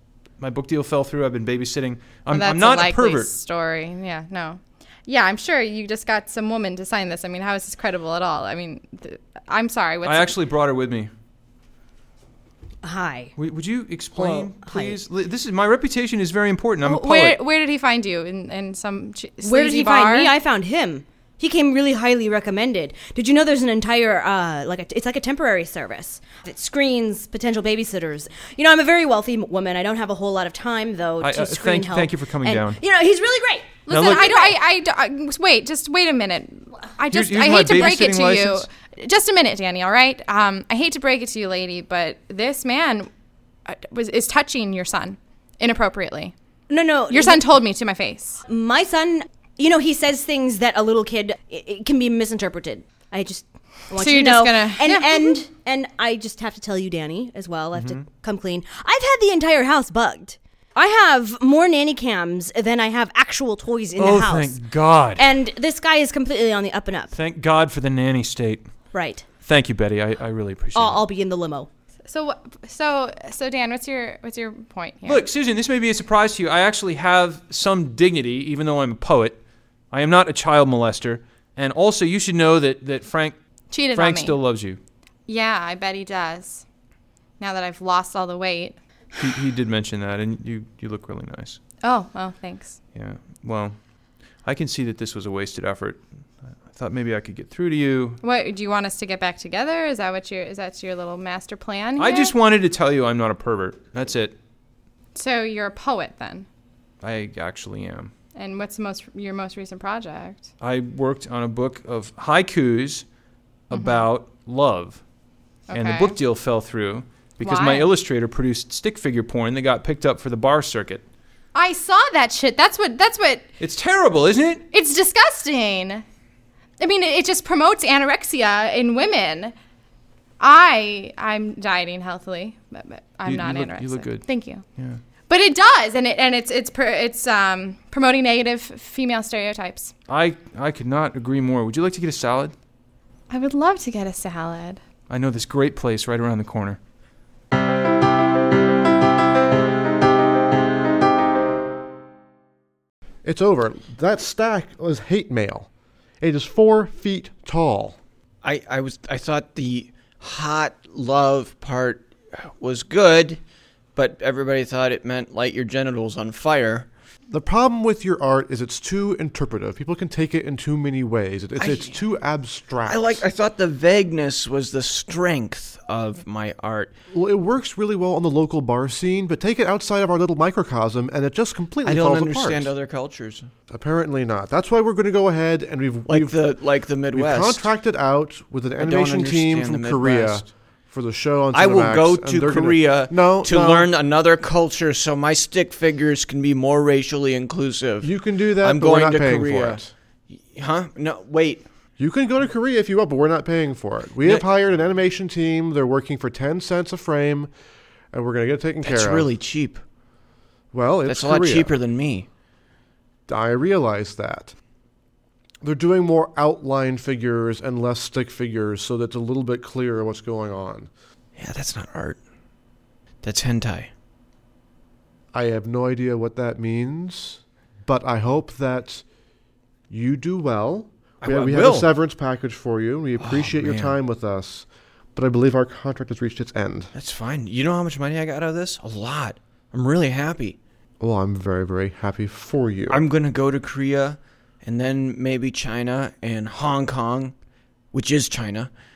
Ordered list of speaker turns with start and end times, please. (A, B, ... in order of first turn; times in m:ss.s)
0:00.4-0:03.3 A
0:02.3-0:10.4 B
0:10.0-0:11.1 A
0:12.8-0:13.3 C
0:13.4-0:17.4 A
0:14.1-0:15.0 C
0:16.8-0:20.3 B
0:19.4-0:34.6 C
0:31.2-0:32.8 A
0:33.9-0:43.1 B
0:33.9-0:34.3 A
0:37.1-0:38.6 A
0:43.7-0:46.3 B
0:46.7-0:47.4 C
0:47.1-0:48.4 B
0:48.5-1:04.6 C
0:53.9-0:55.4 B
0:57.7-0:58.0 A
1:04.0-1:05.3 A
1:05.2-1:07.1 C
1:07.1-1:08.7 A
1:08.9-1:09.2 C
1:09.4-1:11.0 A
1:10.7-1:11.7 C
1:12.1-1:15.2 B
1:15.0-1:19.4 A
1:19.9-1:23.4 A
1:23.7-1:24.4 B
1:23.9-1:24.8 A
1:25.3-1:26.6 B
1:27.4-1:28.8 B
1:29.2-1:31.6 A
1:31.8-1:32.8 B
1:32.9-1:33.8 A
1:34.4-1:38.2 A
1:38.2-1:42.3 B
1:42.0-1:44.4 A
1:45.1-1:46.5 B
1:47.0-1:48.1 A
1:48.4-1:50.5 B
1:50.6-1:53.1 A
1:53.7-1:55.0 A
1:53.7-1:54.0 B
1:55.7-1:56.2 B
1:55.7-2:01.0 A
1:57.4-1:57.9 B
2:01.5-2:03.4 B
2:03.6-2:04.6 A
2:04.7-2:06.0 B
2:06.8-2:09.6 B
2:10.4-2:14.6 B
2:13.2-2:15.0 A
2:15.3-2:19.9 B
2:20.1-2:22.6 A
2:23.3-2:24.8 B
2:25.1-2:26.8 A
2:33.2-2:35.7 D
2:36.2-2:38.0 D
2:38.4-2:43.4 E
2:43.9-2:46.9 E
2:47.3-2:53.2 D
2:51.6-2:52.0 E
2:52.9-2:56.9 E
2:57.1-3:02.7 D
3:01.8-3:03.5 E
3:03.7-3:06.5 D
3:06.1-3:07.7 E
3:07.1-3:13.9 D
3:08.8-3:10.5 E
3:11.5-3:21.6 E
3:18.0-3:19.9 D
3:22.0-3:27.5 D
3:24.2-3:24.5 E
3:28.1-3:29.3 D
3:28.8-3:29.8 E
3:30.7-3:31.8 D
3:31.1-3:32.3 E
3:33.3-3:34.6 D
3:35.6-3:40.9 D
3:41.4-3:42.2 E
3:43.2-3:43.9 E
3:45.3-3:49.0 D
3:49.9-3:56.9 D
3:51.2-3:51.9 E
3:53.2-3:54.0 E
3:56.9-4:00.6 E
4:01.0-4:03.0 D
4:02.9-4:07.4 E
4:07.9-4:08.7 E